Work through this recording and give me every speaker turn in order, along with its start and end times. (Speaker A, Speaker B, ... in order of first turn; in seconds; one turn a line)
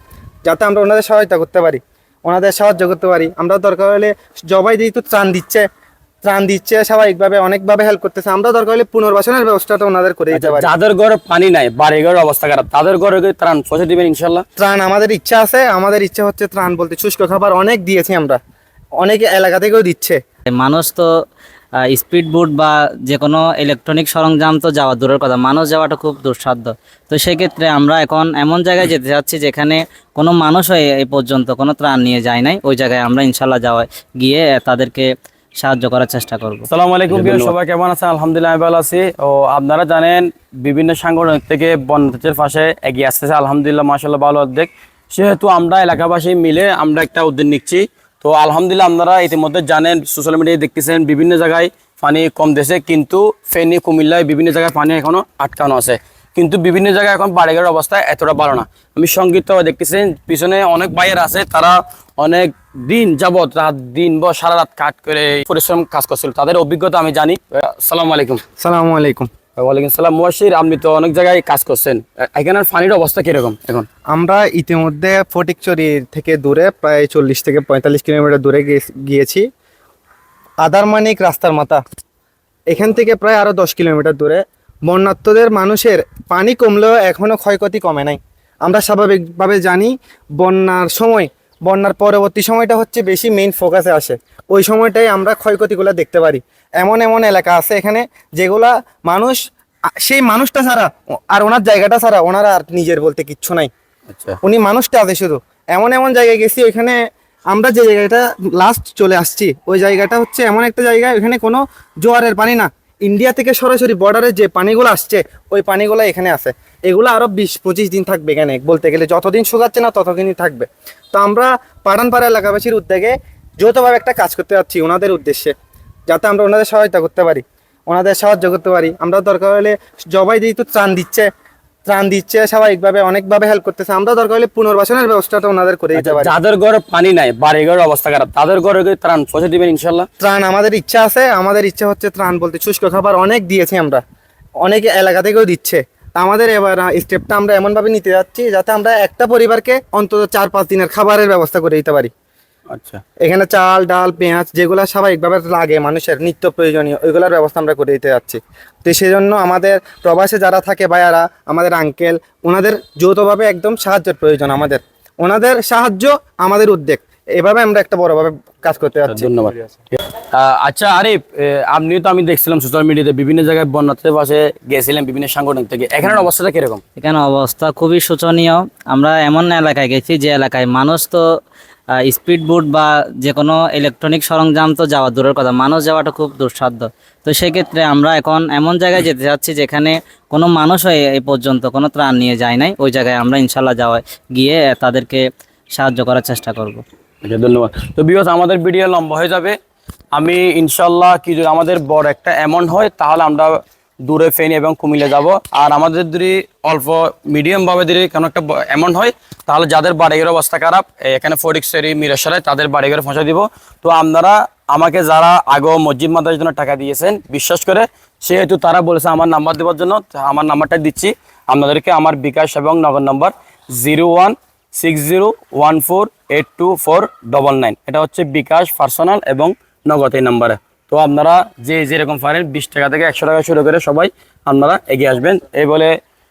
Speaker A: 0.5-5.7
Speaker A: 6.2-10.7
Speaker B: 10.3-14.4
Speaker A: 14.6-18.4
Speaker A: 19.0-20.2
Speaker C: 20.6-21.1
Speaker C: 21.9-35.1
Speaker C: 35.6-37.5
Speaker B: 36.7-68.4
Speaker A: 68.6-69.3
Speaker B: 69.6-73.9
Speaker A: 74.1-79.5
Speaker A: 80.6-81.8
Speaker A: 82.7-103.7
Speaker B: 104.1-104.4
Speaker A: 104.4-107.0
Speaker A: 107.5-125.5
Speaker A: 126.1-131.3
Speaker A: 131.9-136.3
Speaker B: 136.0-140.1
Speaker A: 140.2-144.0
Speaker A: 144.6-152.1
Speaker B: 152.7-153.0
Speaker A: 153.2-169.3
Speaker B: 169.1-169.6
Speaker B: 170.3-176.8
Speaker C: 177.0-181.2
Speaker C: 182.0-195.2
Speaker C: 195.8-196.8
Speaker B: 197.2-199.6
Speaker B: 200.1-235.9